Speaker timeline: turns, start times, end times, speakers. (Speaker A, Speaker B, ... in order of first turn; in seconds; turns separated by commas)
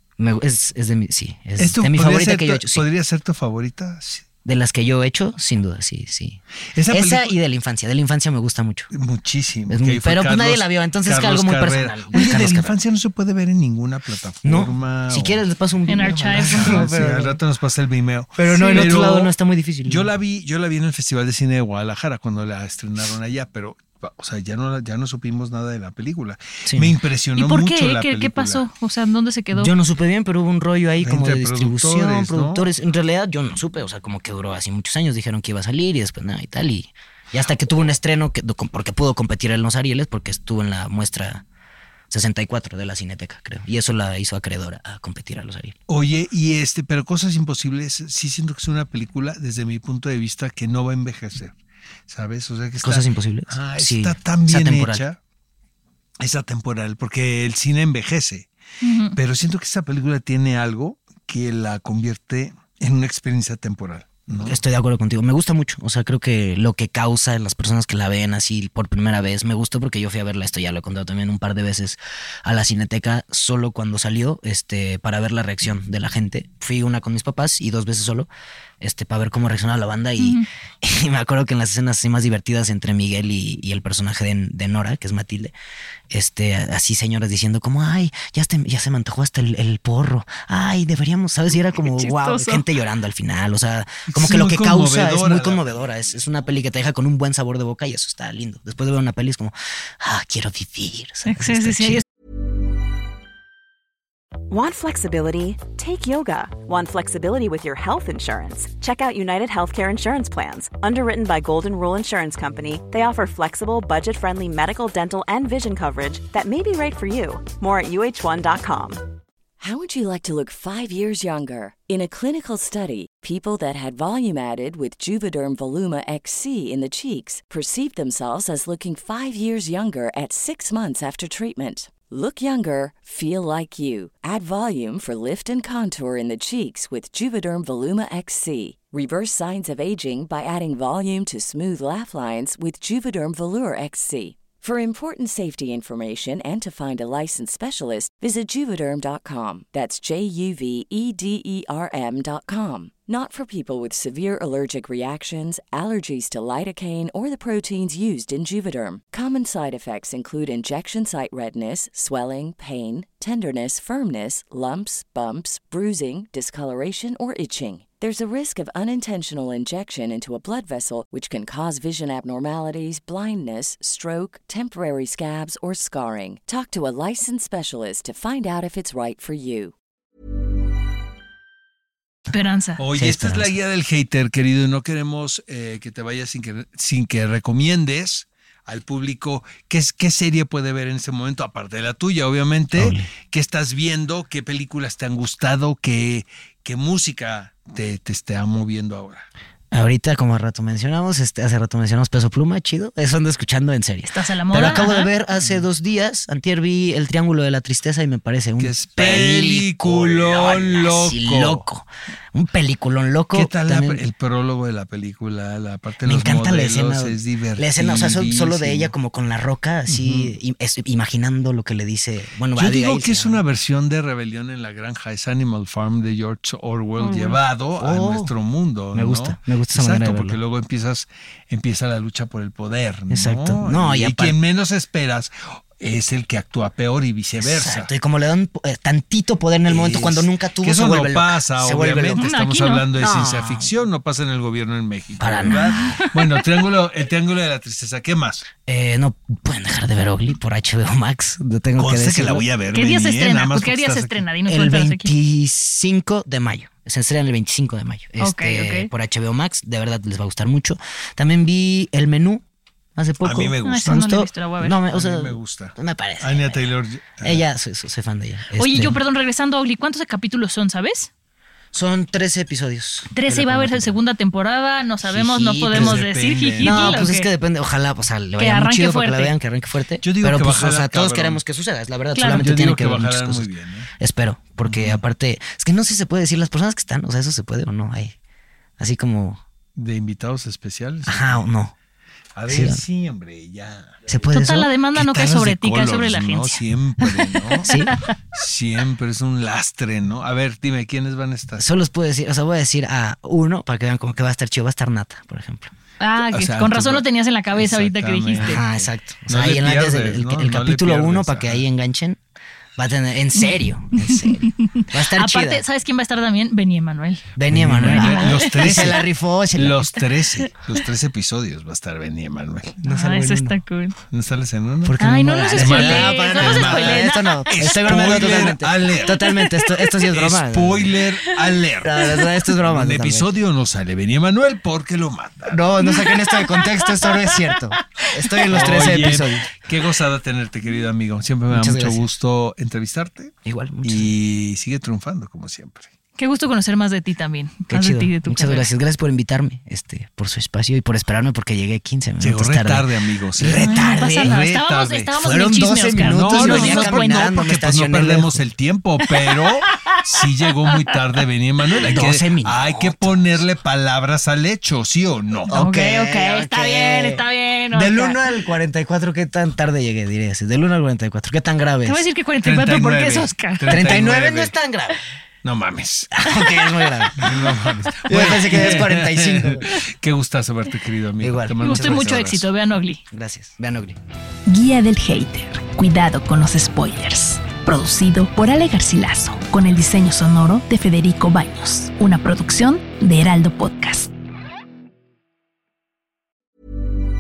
Speaker A: 0.2-2.9, Speaker B: 1.6-4.2, Speaker A: 4.5-8.9, Speaker B: 6.8-7.3, Speaker B: 8.9-15.4, Speaker A: 9.7-12.8, Speaker A: 14.4-17.4, Speaker C: 15.9-16.9, Speaker B: 16.4-19.3, Speaker A: 18.4-20.1, Speaker C: 18.5-19.0, Speaker B: 19.9-28.6, Speaker A: 26.6-26.9, Speaker C: 27.4-29.7, Speaker A: 29.5-41.4, Speaker B: 31.0-32.6, Speaker A: 42.1-45.8, Speaker B: 45.9-51.5, Speaker B: 52.1-55.2, Speaker A: 52.8-55.0, Speaker B: 56.2-58.5, Speaker C: 58.8-59.2, Speaker B: 59.1-64.6, Speaker A: 64.4-78.3, Speaker A: 78.8-85.5, Speaker C: 80.2-80.5, Speaker A: 86.1-102.0, Speaker C: 91.8-92.6, Speaker B: 94.1-95.9, Speaker C: 101.2-102.0, Speaker D: 104.5-119.0, Speaker E: 119.6-179.7, Speaker C: 182.3-182.8, Speaker B: 182.8-199.3, Speaker A: 182.9-183.6, Speaker A: 192.7-193.1, Speaker A: 199.7-214.0, Speaker C: 204.1-205.1, Speaker B: 205.4-205.6, Speaker B: 208.6-211.6, Speaker B: 213.3-218.9, Speaker A: 216.0-223.4, Speaker B: 219.9-220.3, Speaker B: 222.6-237.9, Speaker C: 227.0-227.4, Speaker A: 227.8-228.3, Speaker A: 228.9-230.4, Speaker A: 233.1-234.4, Speaker A: 237.4-242.3, Speaker B: 239.7-248.4, Speaker C: 242.2-242.9, Speaker A: 242.9-243.7, Speaker A: 245.2-246.1, Speaker C: 245.5-246.4, Speaker A: 248.7-252.5, Speaker B: 251.8-254.2, Speaker C: 252.7-255.1, Speaker A: 254.5-262.4, Speaker C: 258.2-258.9, Speaker A: 262.9-266.7, Speaker B: 263.2-264.2, Speaker C: 263.6-264.8, Speaker B: 264.9-267.4, Speaker A: 267.2-269.0, Speaker C: 268.6-271.1, Speaker A: 271.7-274.0, Speaker C: 273.1-277.3, Speaker A: 275.0-276.1, Speaker B: 275.7-277.1, Speaker A: 276.6-288.1, Speaker C: 278.4-279.3, Speaker B: 280.0-281.4, Speaker C: 282.1-282.5, Speaker B: 282.3-283.9, Speaker B: 284.6-285.0, Speaker A: 288.8-289.4, Speaker B: 289.8-291.4, Speaker A: 291.1-291.7, Speaker B: 292.4-294.0, Speaker A: 292.5-292.8, Speaker A: 294.1-294.7, Speaker C: 294.3-298.1, Speaker B: 294.9-297.8, Speaker A: 297.6-297.9, Speaker B: 298.3-301.6, Speaker A: 301.6-305.7, Speaker C: 306.0-308.6, Speaker B: 306.2-311.6, Speaker A: 308.4-312.2, Speaker A: 312.8-315.6, Speaker C: 313.9-319.0, Speaker A: 317.4-320.0, Speaker B: 317.5-322.8, Speaker A: 322.8-323.6, Speaker C: 322.9-323.9, Speaker B: 324.1-325.0, Speaker A: 324.8-331.0, Speaker C: 325.0-328.5, Speaker B: 325.5-329.4, Speaker C: 329.0-330.0, Speaker B: 330.1-335.6, Speaker C: 331.2-332.3, Speaker A: 331.8-333.4, Speaker A: 335.5-339.5, Speaker C: 335.8-338.4, Speaker B: 338.5-345.9, Speaker A: 341.5-342.1, Speaker A: 343.4-344.1, Speaker C: 346.2-348.7, Speaker A: 347.7-354.4, Speaker B: 352.2-355.1, Speaker C: 353.5-357.2, Speaker A: 355.2-358.4, Speaker B: 356.0-365.5, Speaker C: 359.3-360.0, Speaker C: 360.6-361.2, Speaker A: 361.8-363.4, Speaker C: 365.5-368.2, Speaker A: 365.5-372.0, Speaker C: 371.9-373.8, Speaker B: 372.4-374.5, Speaker A: 373.6-375.0, Speaker B: 375.4-376.3, Speaker A: 376.1-377.4, Speaker B: 377.1-382.4, Speaker A: 378.0-379.7, Speaker A: 381.2-382.2, Speaker C: 381.6-383.0, Speaker A: 383.1-384.0, Speaker F: 384.5-394.1